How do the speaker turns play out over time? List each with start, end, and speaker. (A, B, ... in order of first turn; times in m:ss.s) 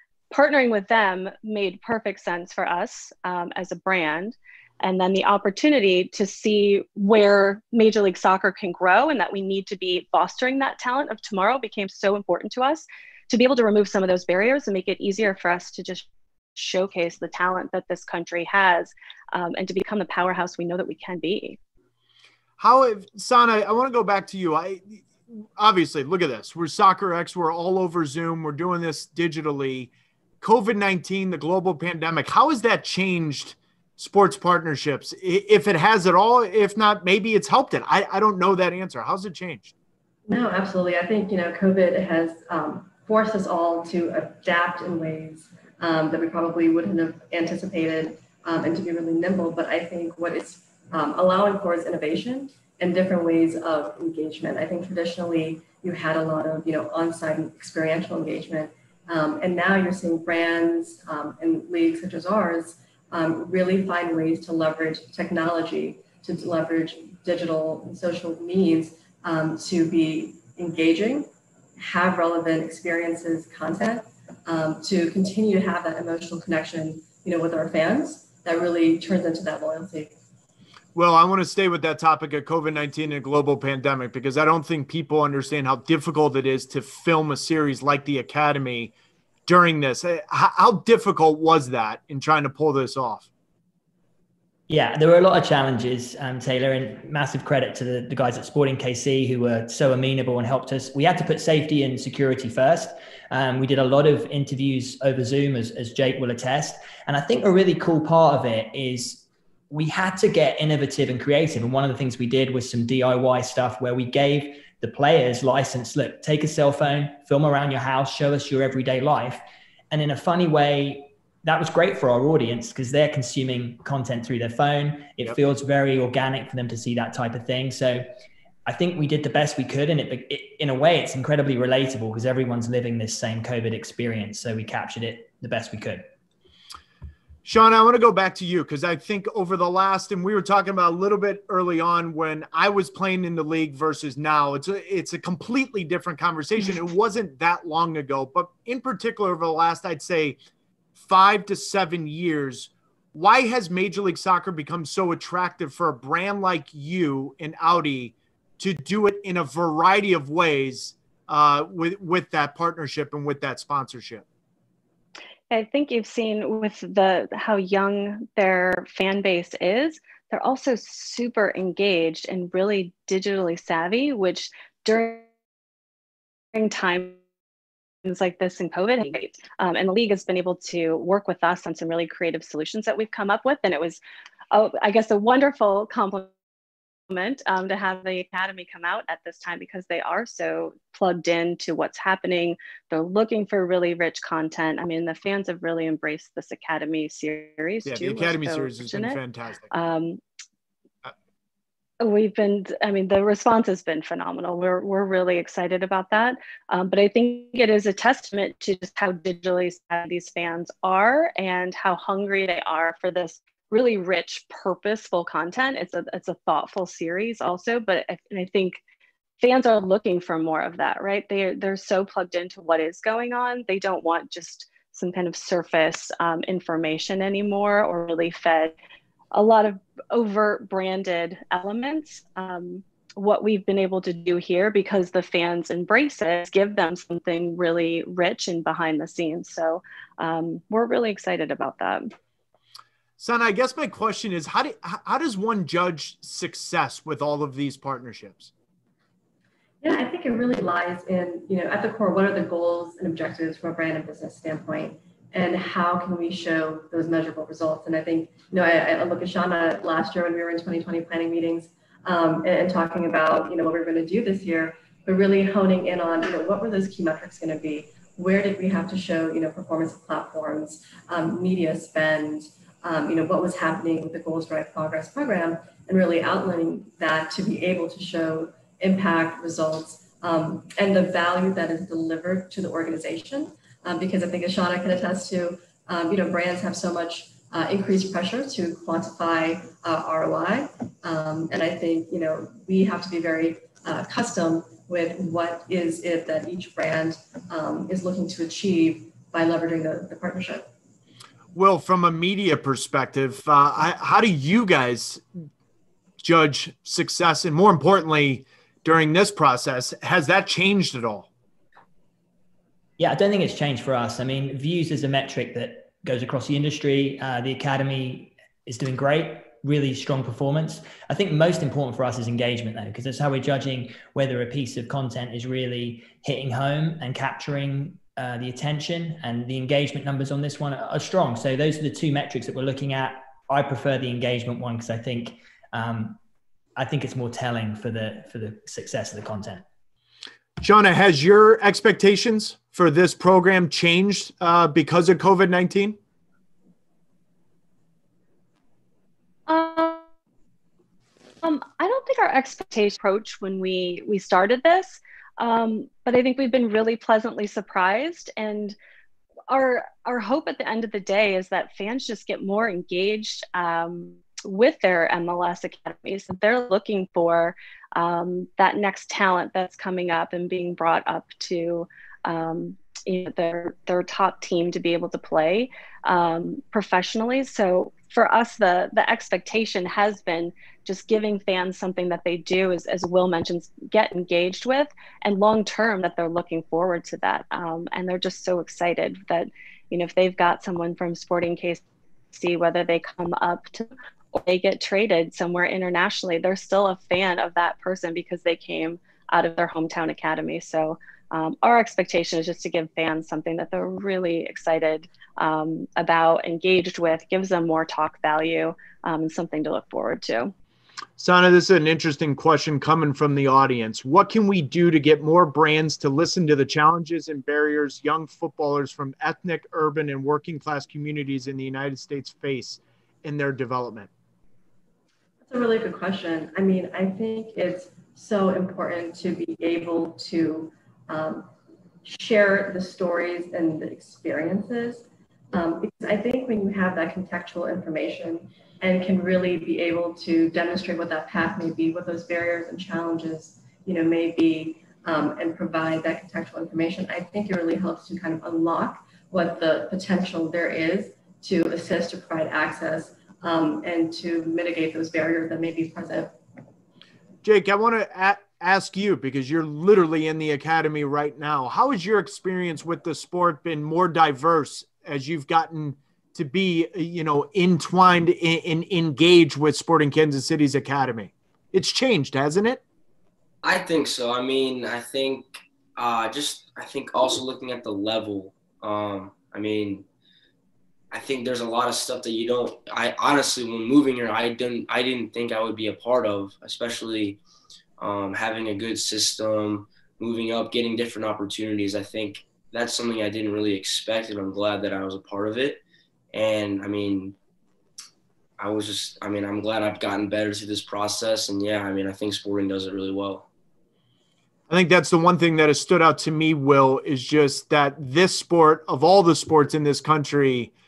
0:00.3-0:21.6 A
0:22.6-0:39.7 B
0:40.3-1:11.3 C
1:11.8-1:20.1 C
1:21.0-1:28.9 B
1:29.5-1:33.3 B
1:34.7-2:08.0 D
2:08.7-2:16.0 D
2:17.4-2:30.4 B
2:31.0-2:44.2 B
2:45.5-2:55.2 A
2:56.5-2:57.2 A
2:58.0-3:04.0 A
3:04.5-3:06.3 A
3:07.1-3:19.2 A
3:17.9-3:19.7 B
3:19.7-3:20.2 A
3:22.0-3:38.8 A
3:39.4-3:48.7 A
3:49.3-4:02.1 A
4:03.2-4:08.5 B
4:09.8-5:00.7 C
5:01.5-5:05.4 B
5:06.2-5:11.3 B
5:13.0-5:36.2 D
5:36.8-5:39.6 D
5:40.6-5:46.0 B
5:49.5-5:50.0 A
5:51.4-5:58.8 A
5:59.5-6:50.5 A
6:51.2-7:04.1 B
7:05.5-7:11.5 C
7:12.0-7:36.3 C
7:37.4-7:52.8 B
7:53.6-8:00.0 E
8:01.1-8:07.4 E
8:08.0-8:17.4 E
8:18.6-8:23.5 E
8:24.7-8:30.7 B